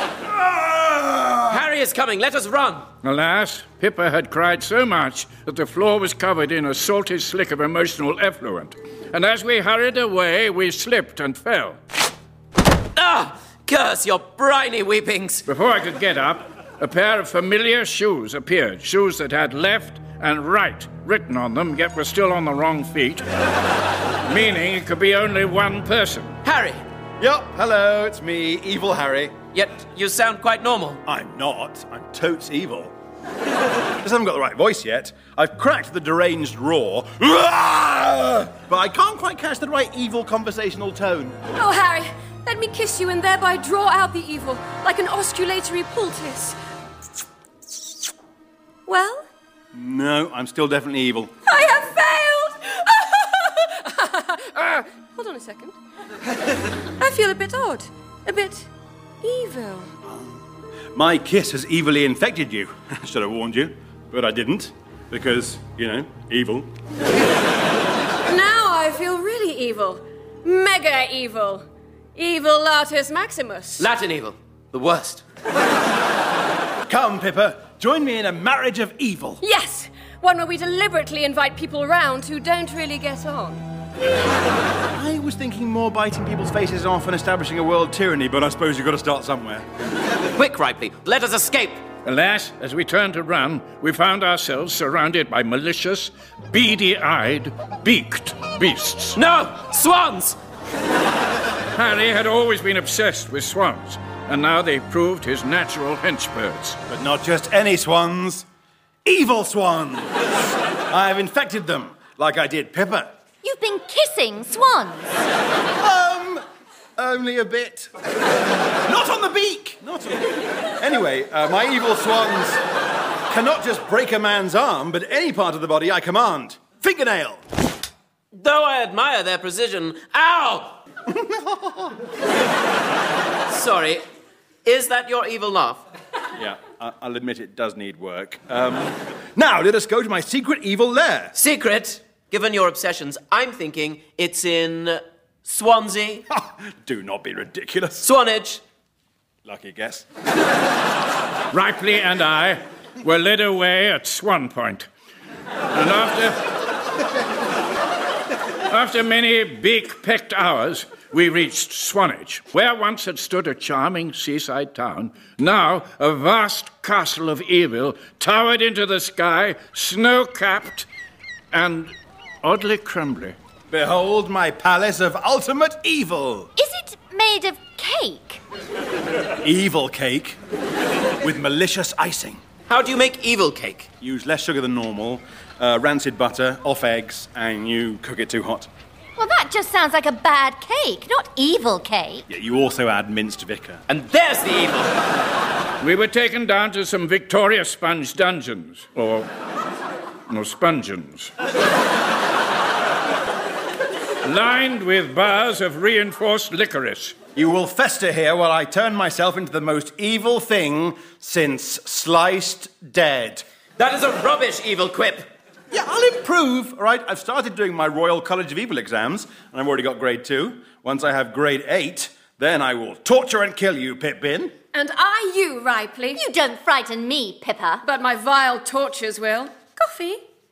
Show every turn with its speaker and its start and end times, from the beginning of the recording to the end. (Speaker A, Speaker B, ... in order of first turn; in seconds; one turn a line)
Speaker A: 0.4-1.5
Speaker B: 1.5-2.9
Speaker C: 3.0-11.8
Speaker B: 12.9-15.4
Speaker C: 15.5-23.2
Speaker C: 24.3-26.4
Speaker B: 26.4-26.8
Speaker A: 27.2-29.4
Speaker B: 29.5-31.0
Speaker A: 31.1-32.9
Speaker A: 34.0-41.4
Speaker D: 41.5-46.6
Speaker D: 48.9-49.3
Speaker A: 49.7-51.3
Speaker D: 51.5-55.8
Speaker D: 57.0-58.7
Speaker D: 59.2-59.9
Speaker A: 60.9-66.7
Speaker D: 68.3-71.7
Speaker D: 72.2-73.8
Speaker B: 73.8-75.2
Speaker A: 76.9-79.4
Speaker D: 79.4-83.6
Speaker A: 84.9-89.7
Speaker B: 90.4-91.8
Speaker C: 92.0-99.2
Speaker B: 99.2-100.4
Speaker C: 101.7-106.8
Speaker A: 106.9-108.5
Speaker A: 109.0-110.1
Speaker A: 110.9-113.1
Speaker E: 113.4-115.1
Speaker A: 115.8-116.4
Speaker A: 117.0-117.9
Speaker A: 118.9-122.6
Speaker A: 123.3-127.4
Speaker B: 128.3-130.8
Speaker A: 131.1-131.7
Speaker B: 133.5-134.0
Speaker B: 134.6-135.8
Speaker A: 136.4-141.3
Speaker B: 141.3-146.3
Speaker A: 146.3-148.0
Speaker B: 148.0-148.6
Speaker A: 149.4-150.1
Speaker C: 151.5-154.9
Speaker C: 155.7-156.5
Speaker C: 158.7-170.9
Speaker C: 171.5-173.4
Speaker A: 173.7-176.5
Speaker E: 176.6-178.4
Speaker A: 179.4-180.4
Speaker A: 181.2-182.4
Speaker B: 182.7-183.9
Speaker A: 184.0-188.7
Speaker E: 189.2-192.2
Speaker A: 192.3-193.8
Speaker B: 193.9-195.0
Speaker C: 195.8-199.3
Speaker C: 200.3-201.3
Speaker C: 204.2-207.2
Speaker A: 207.4-213.4
Speaker B: 213.8-215.3
Speaker A: 215.7-224.6
Speaker D: 224.7-226.2
Speaker E: 226.2-227.8
Speaker D: 227.8-230.2